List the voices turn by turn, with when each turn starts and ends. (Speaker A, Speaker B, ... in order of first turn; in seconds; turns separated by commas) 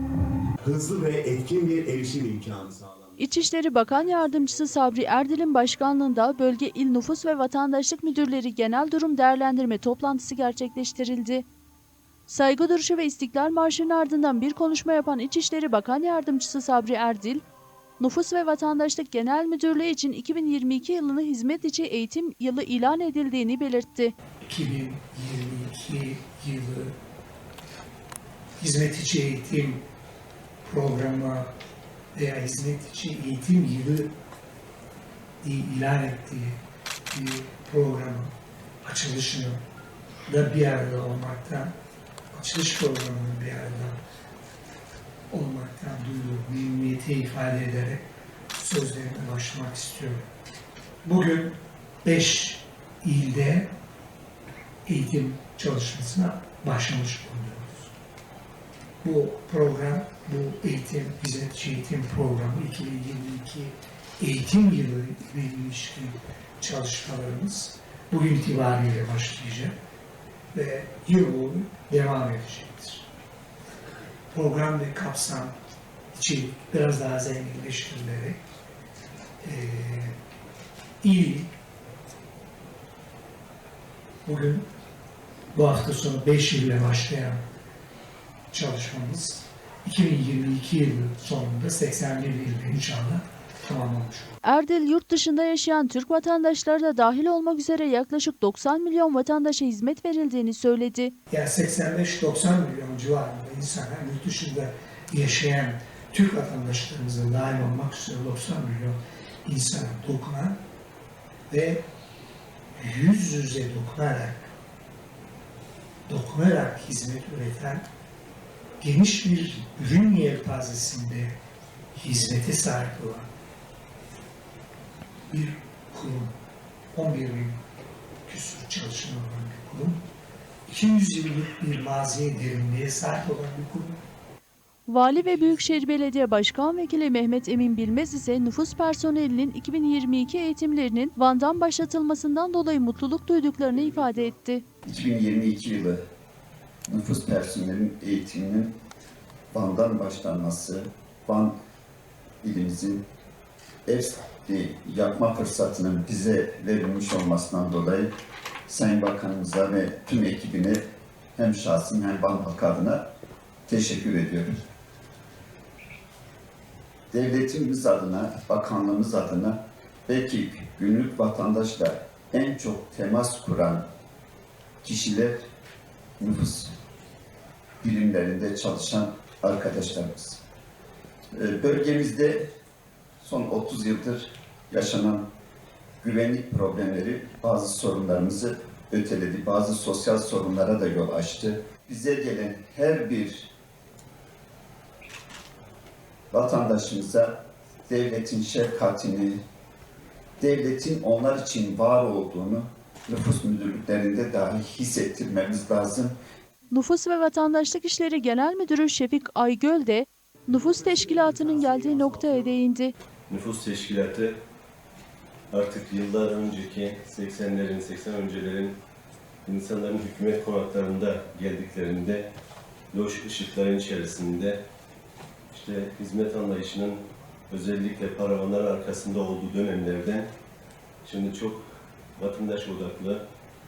Speaker A: 0.6-3.4, Speaker B: 3.2-11.5, Speaker A: 4.5-5.0, Speaker B: 12.3-17.4, Speaker B: 18.0-24.1, Speaker C: 24.4-26.9, Speaker C: 28.6-29.8, Speaker C: 30.6-31.5, Speaker C: 32.1-34.1, Speaker C: 35.4-36.6, Speaker C: 37.1-39.6, Speaker C: 40.3-41.7, Speaker C: 42.3-44.0, Speaker C: 45.3-48.0, Speaker C: 48.6-50.3, Speaker C: 51.0-53.7, Speaker C: 54.9-57.9, Speaker C: 59.0-69.8, Speaker C: 70.5-73.1, Speaker C: 74.3-75.6, Speaker C: 76.1-78.4, Speaker C: 79.4-80.2, Speaker C: 81.0-81.5, Speaker C: 84.3-84.7, Speaker C: 85.5-87.4, Speaker C: 88.5-94.4, Speaker B: 94.4-101.1, Speaker C: 101.3-110.6, Speaker C: 111.5-111.8, Speaker C: 112.8-114.5, Speaker C: 116.1-117.9, Speaker C: 118.8-121.4, Speaker C: 122.0-123.3, Speaker C: 125.3-126.4, Speaker C: 127.0-127.6, Speaker C: 128.3-130.0, Speaker C: 130.7-134.0, Speaker B: 134.9-144.6, Speaker A: 143.8-144.2, Speaker D: 144.8-146.0, Speaker D: 146.9-148.8, Speaker D: 149.5-151.6, Speaker D: 152.4-153.1, Speaker D: 153.9-158.1, Speaker D: 158.7-160.8, Speaker D: 161.4-163.0, Speaker D: 163.7-164.6, Speaker D: 167.1-173.8, Speaker D: 174.8-175.4, Speaker D: 176.2-176.7, Speaker D: 177.8-180.4, Speaker D: 181.3-182.5, Speaker D: 183.2-185.3, Speaker D: 186.0-193.5, Speaker D: 196.3-199.4, Speaker D: 200.4-206.2, Speaker B: 206.7-212.9, Speaker A: 210.5-212.6, Speaker E: 213.3-214.3, Speaker E: 215.5-218.8, Speaker E: 219.5-222.3, Speaker E: 222.9-224.6, Speaker E: 225.5-230.3, Speaker E: 231.0-233.2